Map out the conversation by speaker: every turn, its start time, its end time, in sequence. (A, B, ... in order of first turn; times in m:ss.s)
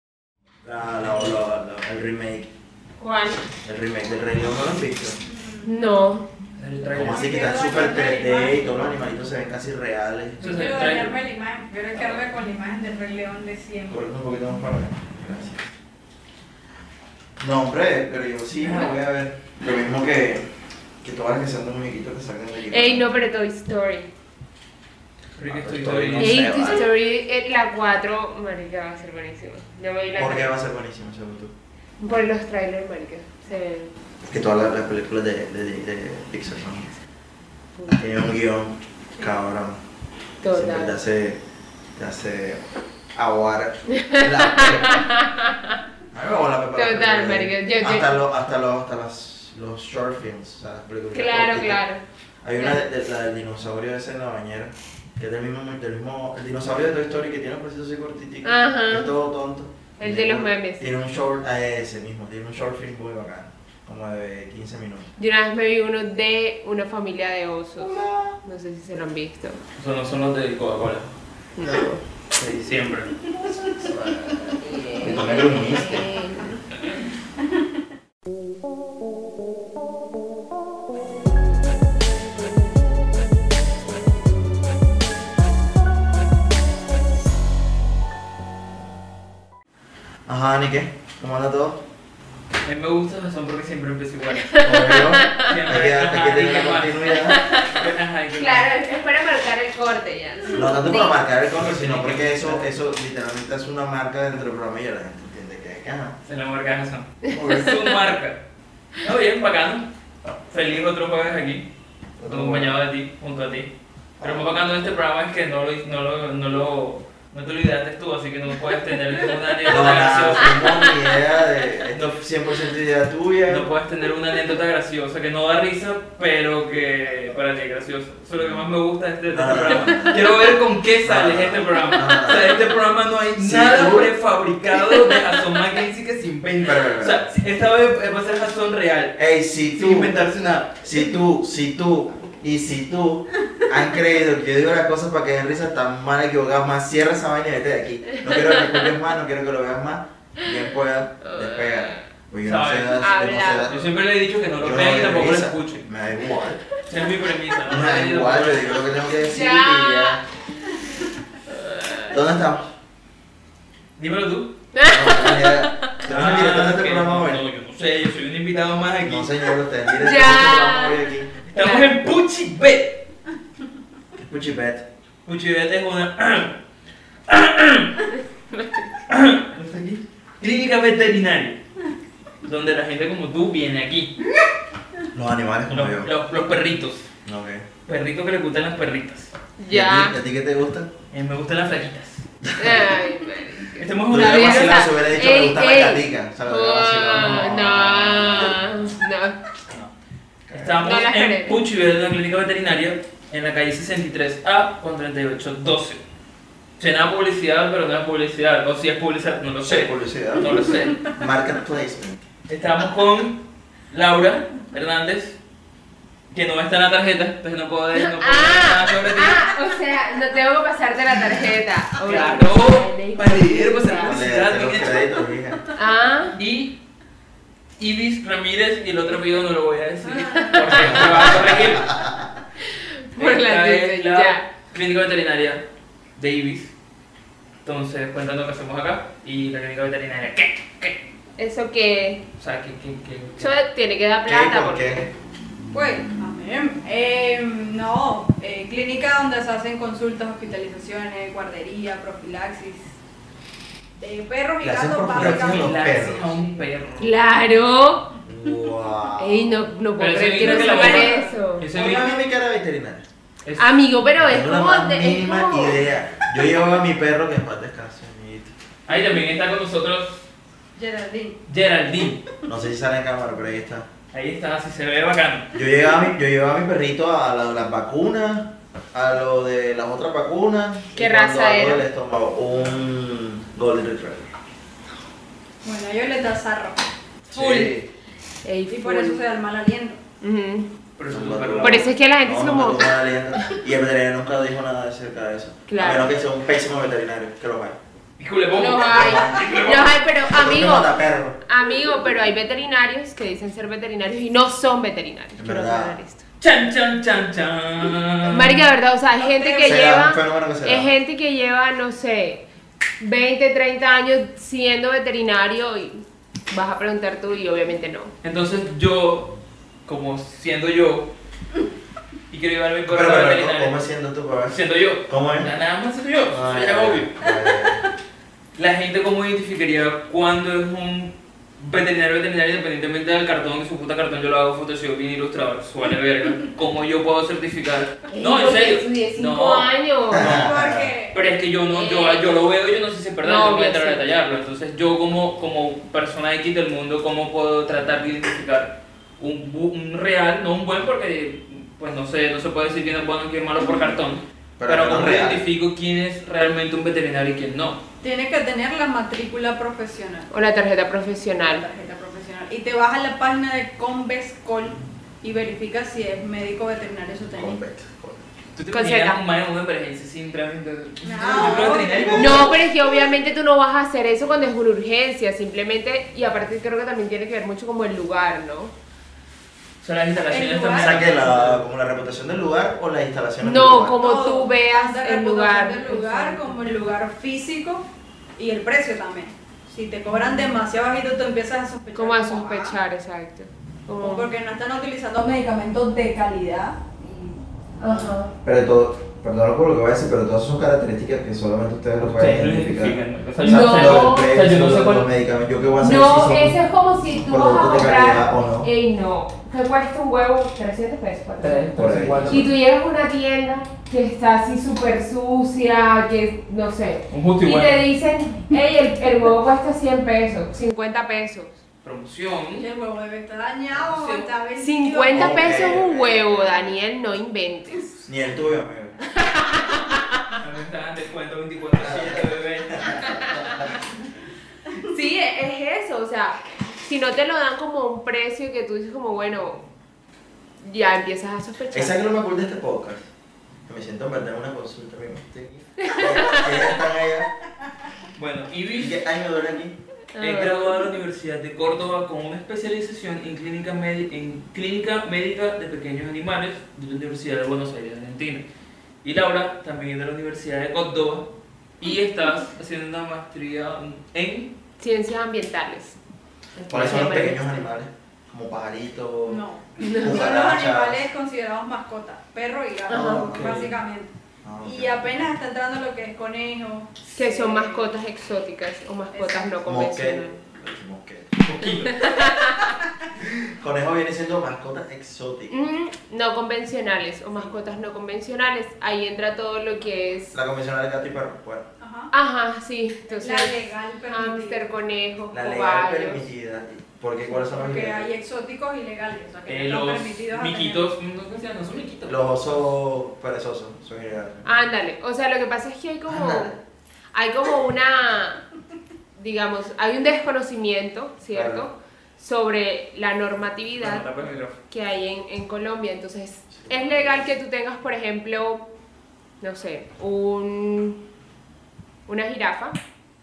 0:00.6-0:02.5 A
0:03.0-0:03.4 B
0:03.6-0:05.2 A
0:05.3-0:05.7 C
0:05.6-0:06.3 B
0:06.6-0:07.6 D
0:06.9-0:10.7 A
0:06.9-0:09.0 C
0:10.4-0:11.2 D
0:10.4-0:14.0 C
0:13.9-0:15.7 A
0:17.4-0:20.5 A
0:21.0-0:23.0 A
0:22.7-0:24.1 B
0:25.4-0:26.5 D
0:25.4-0:26.9 A
0:26.2-0:30.5 B
0:30.1-0:31.5 A
0:32.0-0:33.9 B
0:34.2-0:36.9 A
0:37.9-0:39.8 A
0:40.4-0:41.0 B
0:40.5-0:41.4 A
0:42.0-0:45.0 A
0:43.9-0:45.8 B
0:46.1-0:51.8 A
0:46.8-0:48.1 B
0:51.1-0:52.0 B
0:52.4-1:05.1 A
0:52.6-0:52.8 B
0:58.4-0:59.1 B
1:00.0-1:00.8 B
1:05.2-1:09.6 B
1:07.8-1:08.4 A
1:09.8-1:11.1 D
1:11.6-1:12.0 B
1:12.3-1:13.2 D
1:13.4-1:16.6 B
1:15.0-1:16.1 A
1:30.3-1:31.8 A
1:32.6-1:34.7 D
1:34.4-1:35.5 B
1:34.6-1:37.4 A
1:35.4-1:38.7 D
1:37.3-1:37.8 B
1:38.4-1:41.2 B
1:40.5-1:46.2 A
1:41.5-1:42.6 D
1:46.2-1:48.4 D
1:49.0-1:49.9 D
1:50.5-1:51.6 D
1:52.2-1:52.7 A
1:52.3-2:00.8 D
1:54.2-1:54.5 A
1:59.6-2:03.7 A
2:01.9-2:02.2 D
2:03.5-2:19.2 D
2:08.4-2:08.7 A
2:09.3-2:10.2 A
2:09.9-2:10.3 B
2:11.0-2:12.6 A
2:13.4-2:14.1 A
2:16.6-2:17.2 A
2:19.2-2:20.1 A
2:19.7-2:20.8 D
2:20.8-2:33.8 A
2:28.1-2:28.9 B
2:31.2-2:32.0 B
2:32.4-2:35.8 D
2:33.0-2:33.7 B
2:34.6-2:36.6 A
2:36.8-2:38.8 D
2:37.6-2:40.2 A
2:39.2-2:40.2 B
2:41.5-2:42.1 B
2:42.0-2:42.7 A
2:44.0-2:44.5 D
2:44.7-2:46.0 B
2:44.9-2:47.4 A
2:46.0-2:49.5 D
2:49.0-2:51.4 A
2:50.0-2:51.9 B
2:51.5-2:53.0 D
2:54.2-2:54.8 A
2:55.2-2:56.6 D
2:57.3-2:58.1 D
2:58.5-2:58.9 B
2:59.1-3:01.6 D
3:02.4-3:04.2 D
3:05.1-3:06.1 A
3:05.7-3:07.1 D
3:07.2-3:07.6 A
3:07.9-3:09.3 D
3:09.6-3:10.1 B
3:09.7-3:10.9 A
3:11.1-3:12.2 D
3:12.4-3:13.0 A
3:12.6-3:19.4 B
3:13.7-3:14.8 D
3:14.1-3:18.9 A
3:17.2-3:17.4 D
3:20.5-3:20.8 A
3:20.5-3:26.0 D
3:20.8-3:21.6 B
3:26.8-3:31.1 D
3:29.6-3:32.2 A
3:32.5-3:35.4 D
3:36.3-3:39.5 D
3:37.9-3:44.2 B
3:42.0-3:45.2 D
3:44.0-3:45.7 A
3:45.7-3:46.4 B
3:46.4-3:46.7 D
3:47.8-3:51.9 D
3:50.2-3:51.0 C
3:50.3-3:51.2 B
3:50.8-3:52.3 A
3:52.6-3:54.4 B
3:53.2-3:55.6 D
3:56.2-3:56.7 D
3:57.6-4:01.0 D
4:01.4-4:02.2 B
4:02.4-4:03.5 D
4:03.4-4:05.1 B
4:04.3-4:05.1 A
4:05.7-4:12.9 C
4:14.0-4:15.8 C
4:14.6-4:16.4 A
4:15.1-4:17.1 D
4:17.0-4:18.1 B
4:18.2-4:19.6 A
4:19.2-4:21.6 B
4:20.0-4:22.2 D
4:20.4-4:21.3 C
4:21.7-4:23.1 A
4:23.6-4:25.8 B
4:24.2-4:28.5 A
4:28.9-4:30.3 D
4:30.8-4:31.4 C
4:31.5-4:32.2 D
4:32.5-4:33.9 A
4:34.1-4:35.5 D
4:35.5-4:44.3 A
4:40.9-4:41.8 B
4:45.6-4:46.9 C
4:47.3-4:47.8 A
4:47.3-4:47.8 D
4:48.4-4:49.3 B
4:48.7-4:50.0 C
4:50.2-4:50.7 B
4:51.0-4:51.9 D
4:51.1-4:57.8 A
4:51.6-4:53.5 B
4:55.7-4:56.1 B
4:58.2-4:59.9 D
4:58.5-5:00.9 B
4:58.8-5:01.4 A
5:01.4-5:06.2 B
5:05.4-5:06.0 A
5:06.4-5:08.7 D
5:08.2-5:12.4 B
5:09.1-5:09.8 C
5:09.6-5:10.9 A
5:13.0-5:18.1 B
5:18.2-5:19.3 D
5:19.8-5:21.1 D
5:22.3-5:23.8 D
5:22.9-5:25.5 A
5:24.5-5:27.2 D
5:26.3-5:27.8 A
5:28.6-5:39.7 D
5:38.1-5:40.4 B
5:40.1-5:40.9 A
5:40.1-5:41.2 C
5:41.1-5:57.8 D
5:41.6-5:42.3 B
5:43.2-5:44.0 B
5:54.6-5:55.4 A
5:58.0-6:00.3 C
6:00.3-6:01.6 B
6:01.4-6:07.6 C
6:07.3-6:08.2 A
6:08.6-6:12.6 D
6:08.7-6:09.2 B
6:11.0-6:12.6 C
6:11.2-6:12.4 A
6:12.1-6:18.7 B
6:19.8-6:21.6 D
6:20.3-6:21.2 C
6:20.7-6:24.0 A
6:23.4-6:26.6 B
6:23.9-6:27.8 C
6:28.4-6:32.8 C
6:31.9-6:34.3 B
6:34.0-6:38.1 C
6:37.8-6:38.3 B
6:38.4-6:48.7 A
6:42.0-6:45.1 D
6:43.4-6:44.3 B
6:45.8-6:51.7 B
6:51.4-6:52.5 D
6:51.7-6:52.5 A
6:52.3-7:01.6 B
6:57.1-6:57.8 D
7:01.8-7:02.7 D
7:02.6-7:05.7 C
7:03.7-7:04.3 D
7:04.6-7:08.0 B
7:05.1-7:06.8 A
7:08.0-7:09.0 A
7:09.2-7:10.4 B
7:10.3-7:13.0 D
7:11.8-7:13.8 A
7:13.1-7:13.4 B
7:14.9-7:19.6 B
7:20.6-7:21.9 B
7:21.7-7:23.0 A
7:23.6-7:27.3 A
7:25.8-7:26.5 B
7:28.2-7:29.0 D
7:28.8-7:29.8 A
7:30.1-7:30.9 B
7:30.2-7:38.4 D
7:39.0-7:41.3 D
7:41.8-7:44.5 D
7:44.8-7:46.0 B
7:46.5-7:47.4 B
7:46.7-7:49.4 A
7:49.2-7:57.9 C
7:49.8-7:50.2 B
7:50.0-7:51.1 A
7:52.9-7:53.3 B
7:52.9-7:53.7 A
7:53.2-7:53.7 D
7:54.4-7:55.0 A
7:57.1-8:00.4 B
7:59.1-7:59.6 C
7:59.6-8:01.4 A
8:01.4-8:02.2 D
8:01.6-8:02.7 B
8:03.2-8:05.5 A
8:05.5-8:10.4 B
8:10.3-8:11.7 A
8:11.8-8:12.1 C
8:12.1-8:16.3 B
8:13.1-8:14.6 C
8:15.3-8:18.1 A
8:17.3-8:20.9 C
8:19.5-8:22.6 D
8:22.1-8:24.5 A
8:24.4-8:26.6 B
8:26.1-8:26.6 A
8:27.1-8:28.4 B
8:29.2-8:34.0 B
8:31.3-8:31.6 A
8:33.7-8:34.6 D
8:34.7-8:38.6 B
8:36.5-8:37.3 A
8:39.4-8:41.0 B
8:42.1-8:42.8 B